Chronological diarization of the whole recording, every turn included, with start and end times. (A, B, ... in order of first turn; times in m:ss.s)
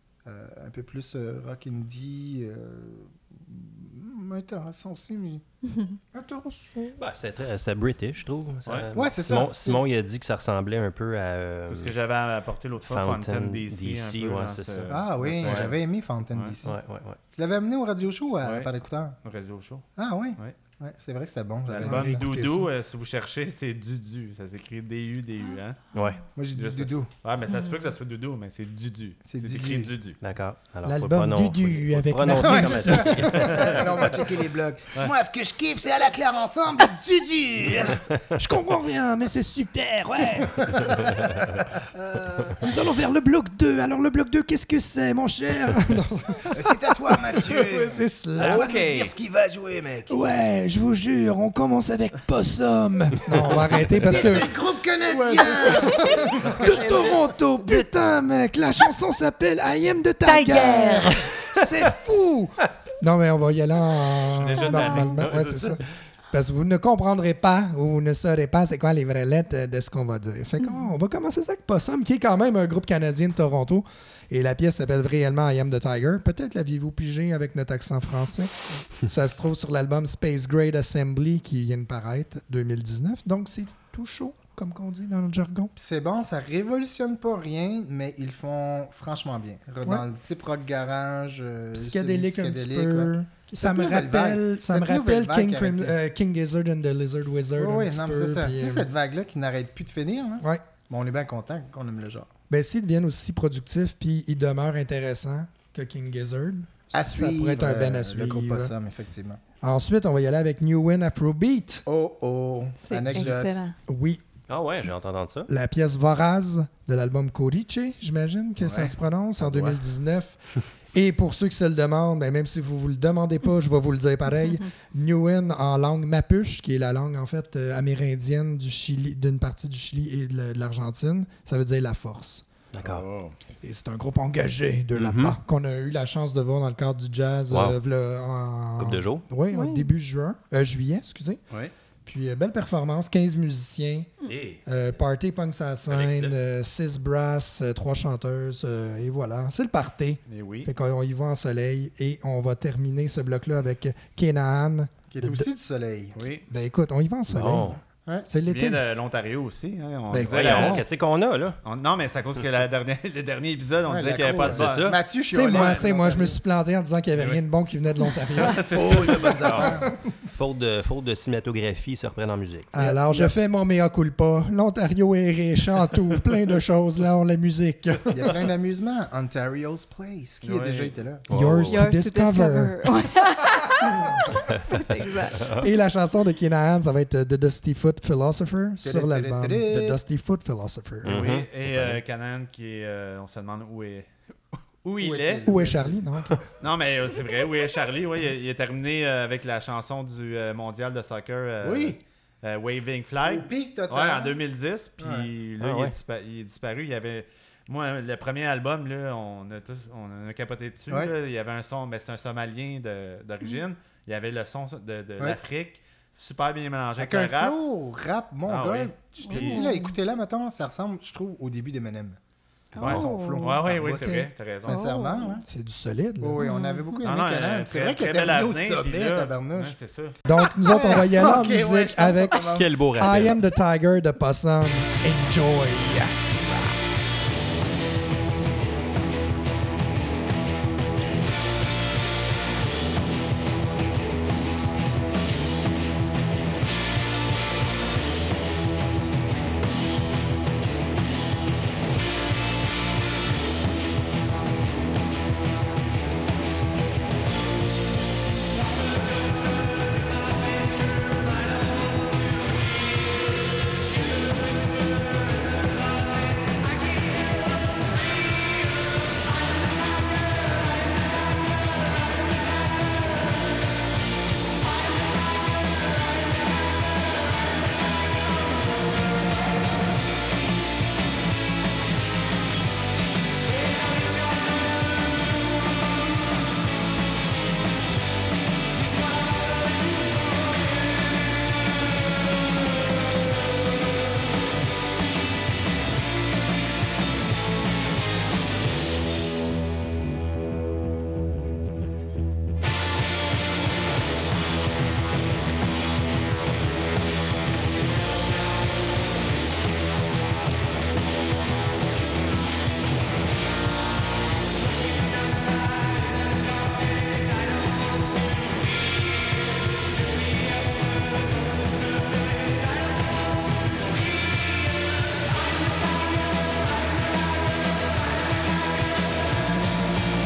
0:00.2-0:05.4 A
0:05.6-0:06.0 B
0:06.1-0:07.0 C
0:07.0-0:11.9 D
0:08.9-0:09.8 A
0:11.7-0:15.7 E
0:12.9-0:14.9 D
0:14.9-0:16.8 A
0:15.4-0:15.7 D
0:16.6-0:17.2 D
0:17.3-0:19.2 A
0:18.4-0:18.7 E
0:19.2-0:19.8 E
0:20.0-0:22.2 A
0:21.7-0:25.8 E
0:21.8-0:22.7 C
0:25.9-0:26.2 D
0:26.4-0:27.1 A
0:26.6-0:30.2 E
0:29.2-0:29.9 A
0:30.2-0:34.2 D
0:30.8-0:33.4 C
0:32.3-0:38.0 A
0:38.4-0:41.3 C
0:42.0-0:42.5 A
0:42.6-0:48.8 C
0:46.5-0:50.2 A
0:48.4-0:49.1 D
0:48.5-0:48.8 E
0:50.1-0:54.5 C
0:54.0-0:57.1 A
0:55.1-1:25.7 C
1:00.3-1:01.1 A
1:04.3-1:05.5 E
1:04.6-1:05.7 D
1:10.6-1:10.9 B
1:25.8-1:36.0 A
1:31.8-1:38.9 C
1:37.6-1:42.3 A
1:42.5-1:48.7 C
1:46.9-1:49.4 A
1:49.6-1:51.8 C
1:51.8-1:53.6 A
1:52.8-1:53.8 B
1:53.9-1:54.2 C
1:54.5-1:55.5 D
1:55.5-2:12.4 C
1:58.6-1:59.8 E
2:12.7-2:13.0 D
2:12.8-2:13.3 E
2:13.6-2:21.4 C
2:14.9-2:15.4 D
2:17.5-2:17.8 D
2:18.8-2:19.3 D
2:19.5-2:19.9 B
2:22.0-2:24.1 C
2:24.2-2:25.0 D
2:24.6-2:35.5 C
2:25.9-2:26.4 D
2:30.3-2:30.7 E
2:35.1-2:36.3 A
2:36.2-2:36.4 E
2:36.5-2:38.8 C
2:37.3-2:37.8 D
2:38.5-2:40.8 E
2:40.1-2:40.8 C
2:40.3-2:41.6 D
2:41.6-2:44.9 E
2:43.8-2:46.4 A
2:44.5-2:45.0 D
2:45.3-2:49.8 C
2:45.5-2:45.9 E
2:47.1-2:47.4 E
2:48.4-2:49.6 E
2:48.7-2:49.9 A
2:49.5-2:49.7 D
2:50.3-2:52.7 D
2:52.7-2:58.1 C
2:52.8-2:53.3 A
2:58.1-3:01.2 A
3:00.4-3:00.9 E
3:01.3-3:01.8 D
3:01.3-3:02.8 C
3:01.7-3:05.5 B
3:05.6-3:11.2 C
3:08.8-3:10.0 A
3:11.0-3:14.1 E
3:11.0-3:12.0 D
3:14.8-3:15.5 E
3:15.0-3:16.0 A
3:15.4-3:16.5 C
3:16.6-3:37.6 E
3:21.6-3:22.0 A
3:23.2-3:24.4 A
3:25.0-3:25.3 A
3:25.6-3:25.9 D
3:37.0-3:42.2 A
3:38.4-3:39.6 E
3:39.2-3:39.9 B
3:42.7-3:43.5 B
3:42.8-3:44.8 E
3:42.8-3:45.4 A
3:44.7-3:45.4 B
3:45.4-3:46.4 C
3:46.2-3:49.7 A
3:46.4-3:47.0 B
3:47.0-3:50.1 E
3:50.2-3:56.5 C
3:50.6-3:52.8 A
3:52.5-3:53.4 D